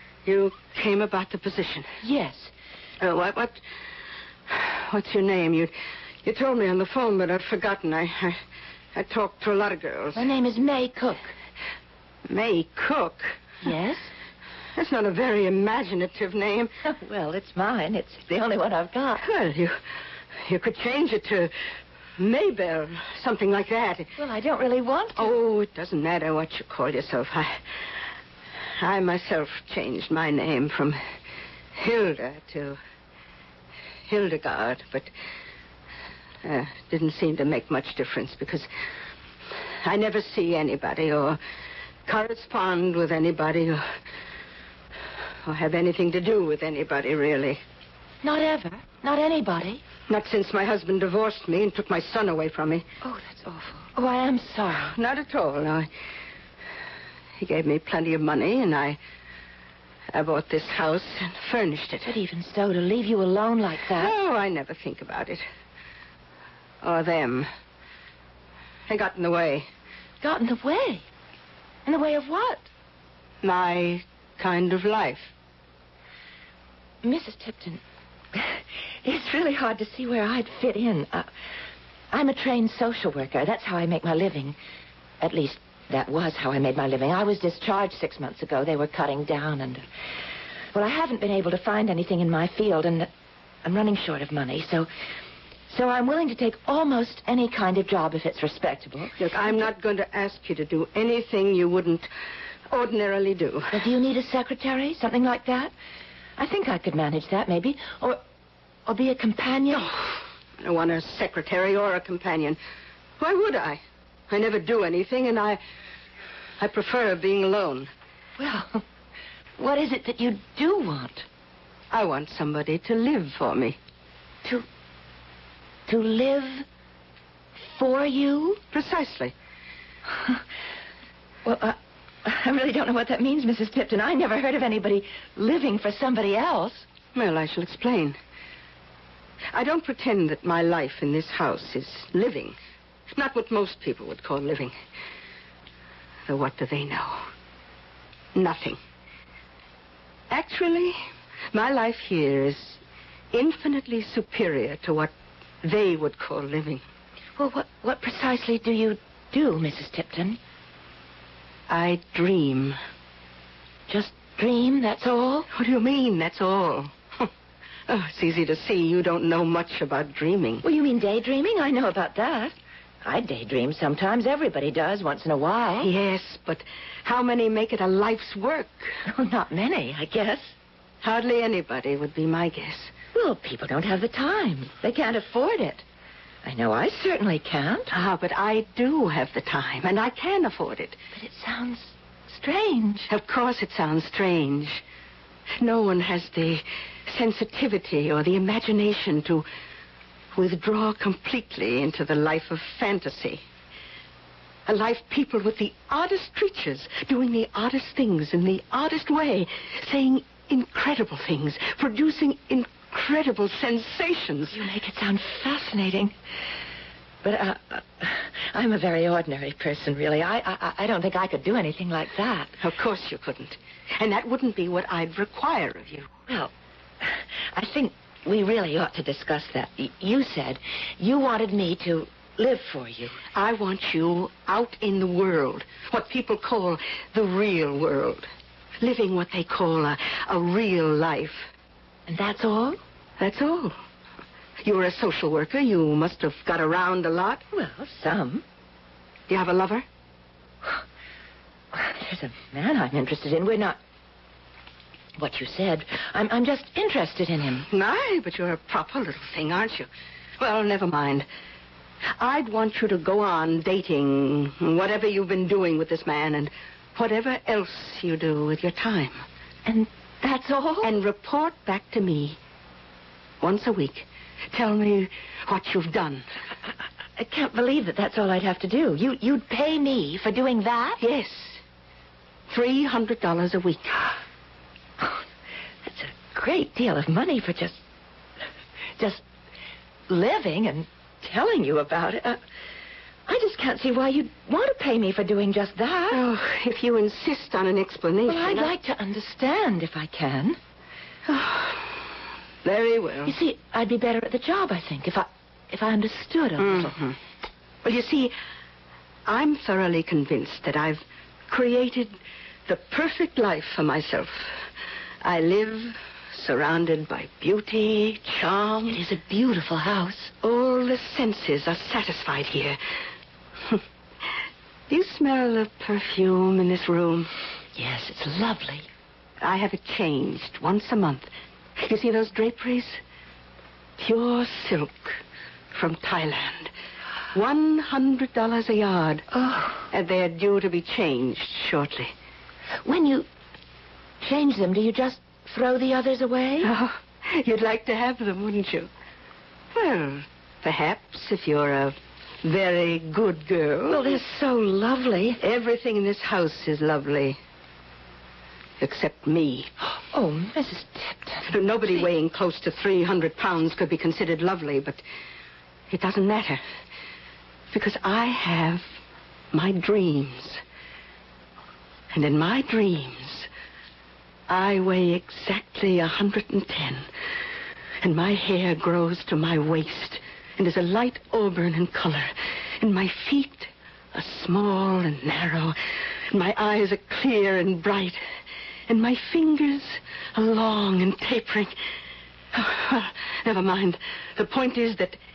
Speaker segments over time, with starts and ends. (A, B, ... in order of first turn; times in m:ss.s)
0:00.2-0:01.9 A
0:02.0-0:02.5 B
0:03.0-0:03.6 A
0:04.5-0:05.7 A
0:06.2-0:08.4 A
0:09.0-0:10.3 A
0:10.1-0:11.3 B
0:12.3-0:13.4 A
0:13.6-0:14.1 B
0:14.8-0:16.7 A
0:16.8-0:19.3 B
0:19.2-0:19.8 A
0:20.5-0:21.5 A
0:22.2-0:24.1 A
0:24.2-0:25.4 B
0:25.2-0:27.6 A
0:28.8-0:31.0 A
0:31.8-0:32.8 A
0:34.1-0:35.1 A
0:36.4-0:38.7 A
0:39.8-0:41.4 A
0:42.1-0:43.9 A
0:45.4-0:47.6 A
0:48.2-0:49.8 B
0:50.1-0:52.9 A
0:53.0-0:54.9 B
0:54.9-0:55.9 A
0:57.4-0:59.0 A
1:00.1-1:02.1 A
1:02.0-1:04.1 B
1:04.0-1:05.4 A
1:06.8-1:07.5 A
1:08.9-1:09.7 A
1:10.2-1:11.0 B
1:11.9-1:12.7 B
1:13.4-1:15.3 A
1:17.0-1:17.8 B
1:18.4-1:21.3 B
1:22.1-1:24.6 B
1:25.2-1:29.8 B
1:30.7-1:33.1 B
1:33.6-1:34.9 B
1:35.7-1:39.6 B
1:39.2-1:42.1 A
1:42.7-1:43.8 A
1:43.7-1:45.7 B
1:46.4-1:48.2 B
1:48.9-1:49.9 B
1:50.6-1:52.6 A
1:53.2-1:55.6 A
1:56.6-1:57.9 A
1:58.4-1:58.8 B
1:59.6-2:01.3 B
2:01.9-2:03.8 A
2:05.9-2:06.7 B
2:07.6-2:08.6 B
2:08.7-2:09.3 A
2:11.4-2:16.9 B
2:17.2-2:18.2 A
2:19.5-2:22.6 A
2:23.2-2:24.8 A
2:26.3-2:27.3 A
2:28.4-2:28.8 A
2:30.3-2:31.0 A
2:31.5-2:32.8 A
2:33.3-2:35.1 A
2:35.6-2:36.8 A
2:37.4-2:40.4 B
2:41.7-2:42.8 A
2:43.9-2:45.5 B
2:45.5-2:47.3 A
2:47.9-2:50.6 A
2:50.6-2:55.9 B
2:55.8-2:59.0 A
2:59.1-3:00.6 B
3:01.0-3:02.9 A
3:03.1-3:05.8 B
3:06.4-3:07.9 B
3:07.9-3:11.0 A
3:11.2-3:13.1 B
3:13.1-3:14.8 A
3:15.6-3:19.5 A
3:20.3-3:23.4 A
3:24.7-3:34.6 A
3:34.5-3:36.1 B
3:37.2-3:42.5 B
3:42.6-3:46.1 A
3:47.0-3:53.2 B
3:53.3-3:58.3 A
3:58.8-4:01.5 A
4:02.1-4:02.8 B
4:03.2-4:03.8 A
4:04.6-4:07.4 A
4:07.5-4:08.4 B
4:09.3-4:09.8 A
4:11.7-4:13.8 B
4:15.2-4:17.7 B
4:17.7-4:21.3 A
4:22.2-4:29.2 A
4:29.7-4:30.9 B
4:30.8-4:32.4 A
4:33.4-4:36.3 A
4:37.2-4:41.0 B
4:41.0-4:41.6 A
4:42.5-4:44.0 A
4:45.8-4:47.8 B
4:49.0-4:49.2 B
4:50.1-4:52.4 B
4:53.3-4:56.2 B
4:56.1-4:58.7 A
4:58.3-5:00.6 B
5:01.3-5:01.9 A
5:02.6-5:03.4 A
5:03.2-5:06.9 B
5:06.6-5:07.2 A
5:07.8-5:08.3 A
5:09.3-5:14.6 A
5:15.2-5:19.0 A
5:18.9-5:20.3 B
5:20.4-5:22.8 A
5:24.9-5:27.3 A
5:27.8-5:28.9 B
5:29.4-5:33.0 A
5:34.0-5:35.2 A
5:35.7-5:36.7 A
5:37.3-5:39.2 A
5:39.3-5:39.9 B
5:39.9-5:42.1 A
5:42.8-5:43.3 B
5:44.2-5:46.7 B
5:46.6-5:48.9 A
5:49.7-5:54.2 A
5:53.9-5:55.4 B
5:55.4-5:57.4 A
5:58.8-5:59.7 A
5:59.9-6:02.0 B
6:01.5-6:05.0 A
6:05.9-6:06.6 A
6:07.7-6:08.9 A
6:09.5-6:10.6 A
6:12.1-6:13.5 A
6:14.5-6:17.1 A
6:18.0-6:25.8 A
6:26.3-6:28.2 A
6:28.9-6:31.7 A
6:32.5-6:35.2 A